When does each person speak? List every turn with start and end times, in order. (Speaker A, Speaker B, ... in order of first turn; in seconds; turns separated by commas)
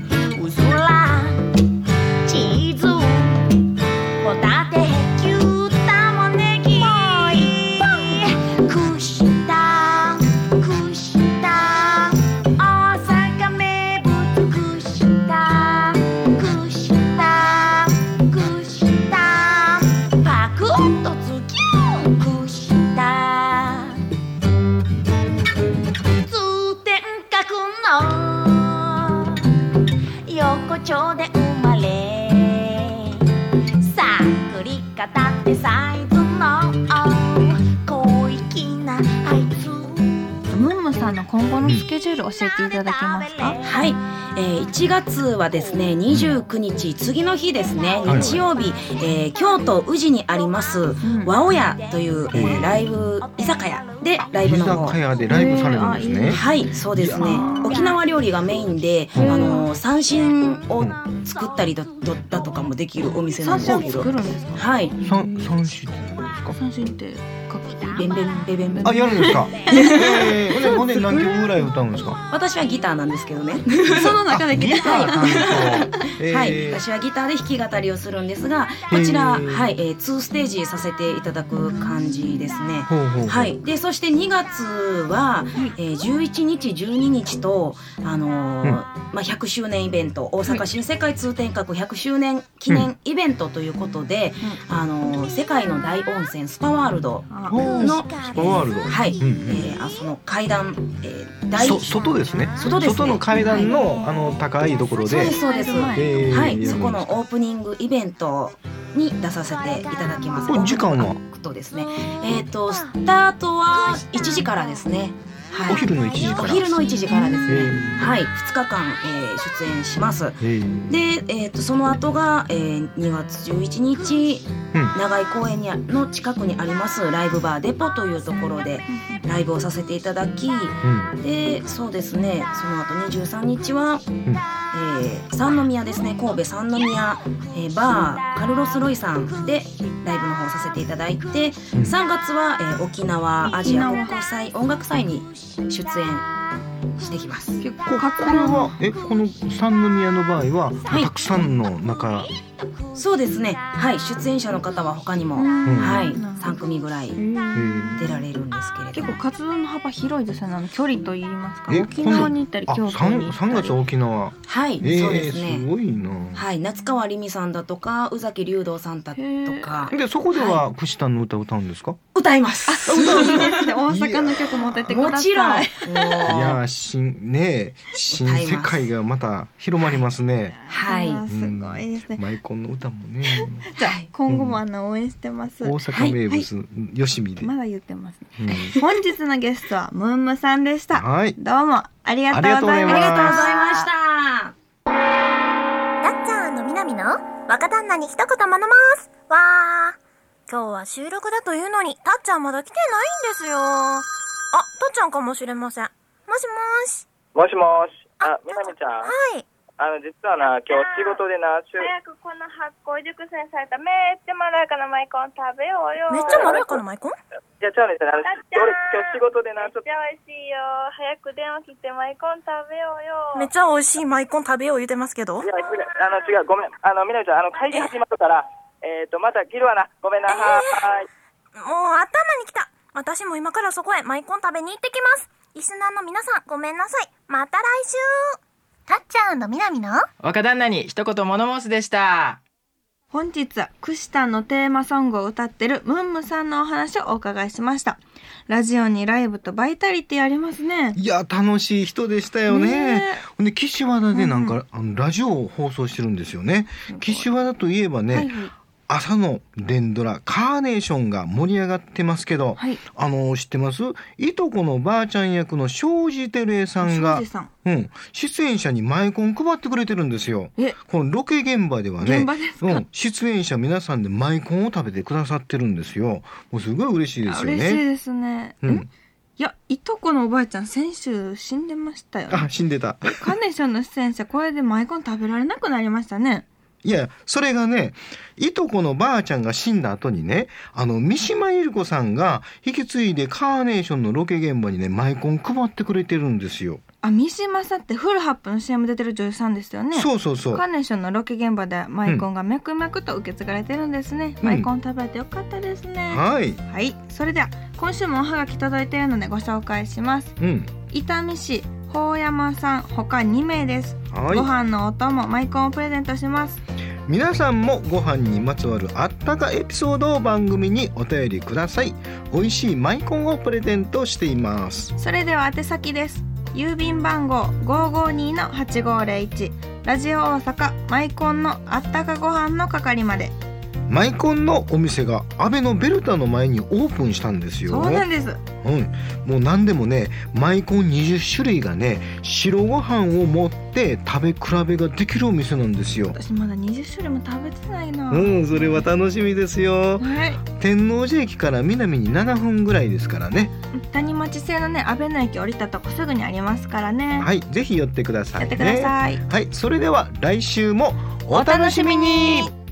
Speaker A: 0.3-1.4, Speaker A: 2.2-3.6, Speaker A: 4.2-24.0, Speaker B: 6.8-7.4, Speaker A: 26.2-29.4, Speaker A: 30.2-33.2, Speaker A: 33.8-40.5, Speaker C: 40.5-43.6, Speaker A: 42.2-43.8, Speaker D: 43.6-55.0, Speaker E: 46.1-46.4, Speaker A: 47.8-49.0, Speaker E: 48.0-48.4, Speaker C: 51.0-51.3, Speaker A: 51.7-54.0, Speaker E: 52.3-52.8, Speaker E: 54.4-57.5, Speaker C: 55.3-56.5, Speaker D: 56.3-65.0, Speaker C: 57.1-57.9, Speaker E: 59.1-59.6, Speaker C: 59.2-59.5, Speaker C: 63.4-65.4, Speaker E: 65.0-66.5, Speaker C: 66.5-71.4, Speaker D: 68.0-70.8, Speaker E: 68.8-72.2, Speaker D: 72.3-102.0, Speaker C: 73.8-75.9, Speaker E: 74.2-76.8, Speaker E: 78.9-79.8, Speaker E: 82.9-83.5, Speaker C: 97.3-97.6, Speaker E: 97.5-99.7, Speaker A: 97.6-97.9, Speaker E: 101.5-107.2, Speaker D: 102.5-103.9, Speaker D: 105.0-134.1, Speaker C: 105.3-106.6, Speaker E: 110.4-111.2, Speaker E: 115.7-118.2, Speaker C: 117.1-117.7, Speaker E: 120.4-121.0, Speaker C: 128.9-129.2, Speaker E: 130.8-131.1, Speaker D: 134.7-146.3, Speaker E: 141.7-142.0, Speaker C: 143.4-144.2, Speaker D: 146.9-147.6, Speaker C: 147.6-148.9, Speaker E: 147.8-152.3, Speaker D: 150.9-151.1, Speaker D: 152.9-157.2, Speaker C: 155.3-156.6, Speaker E: 155.6-156.2, Speaker C: 157.1-158.1, Speaker E: 157.5-158.1, Speaker D: 157.9-159.2, Speaker C: 158.9-163.8, Speaker E: 161.7-166.4, Speaker D: 164.4-165.7, Speaker D: 166.3-170.6, Speaker C: 169.2-169.9, Speaker E: 169.9-172.0, Speaker D: 172.1-173.7, Speaker C: 172.7-176.3, Speaker E: 172.8-175.2, Speaker D: 174.9-176.6, Speaker E: 176.2-180.6, Speaker D: 178.1-178.8, Speaker D: 180.7-181.2, Speaker C: 180.7-182.2, Speaker E: 181.2-183.7, Speaker C: 183.7-186.5, Speaker E: 184.3-184.6, Speaker E: 185.6-187.5, Speaker D: 185.9-186.2, Speaker C: 187.4-193.8, Speaker E: 188.4-188.8, Speaker E: 190.9-191.4, Speaker E: 192.3-193.5, Speaker D: 192.8-194.5, Speaker B: 196.0-199.9, Speaker B: 200.5-207.1, Speaker F: 207.3-209.1, Speaker B: 208.2-209.4, Speaker F: 209.8-211.9, Speaker G: 211.8-216.4, Speaker B: 216.1-217.2, Speaker F: 216.3-216.8, Speaker F: 217.6-219.8, Speaker G: 218.4-218.7, Speaker G: 219.9-223.4, Speaker B: 223.3-225.5, Speaker F: 225.4-231.1, Speaker B: 230.3-230.9, Speaker B: 231.6-238.3, Speaker B: 238.9-240.1, Speaker H: 240.2-242.4, Speaker C: 243.1-251.0, Speaker E: 250.9-258.3, Speaker C: 252.5-253.2, Speaker C: 254.1-254.6, Speaker C: 256.9-257.3, Speaker C: 258.1-258.5, Speaker E: 258.9-277.8, Speaker C: 266.8-267.5, Speaker C: 272.0-272.8, Speaker C: 277.2-278.9, Speaker E: 278.6-278.9, Speaker C: 279.4-282.5, Speaker E: 282.3-283.3, Speaker C: 283.1-286.4, Speaker E: 286.8-296.8, Speaker C: 297.0-310.3, Speaker E: 299.9-300.6, Speaker E: 304.4-304.7, Speaker E: 306.1-306.6, Speaker E: 310.4-310.7, Speaker C: 310.9-316.6, Speaker E: 314.1-314.5, Speaker E: 317.1-324.9, Speaker C: 325.0-333.3, Speaker E: 333.9-338.1, Speaker C: 337.7-338.4, Speaker E: 338.6-346.2, Speaker C: 346.1-348.9, Speaker E: 348.1-353.5, Speaker C: 350.0-350.4, Speaker C: 353.7-357.3, Speaker E: 357.2-362.5, Speaker C: 358.4-359.2, Speaker C: 361.3-362.5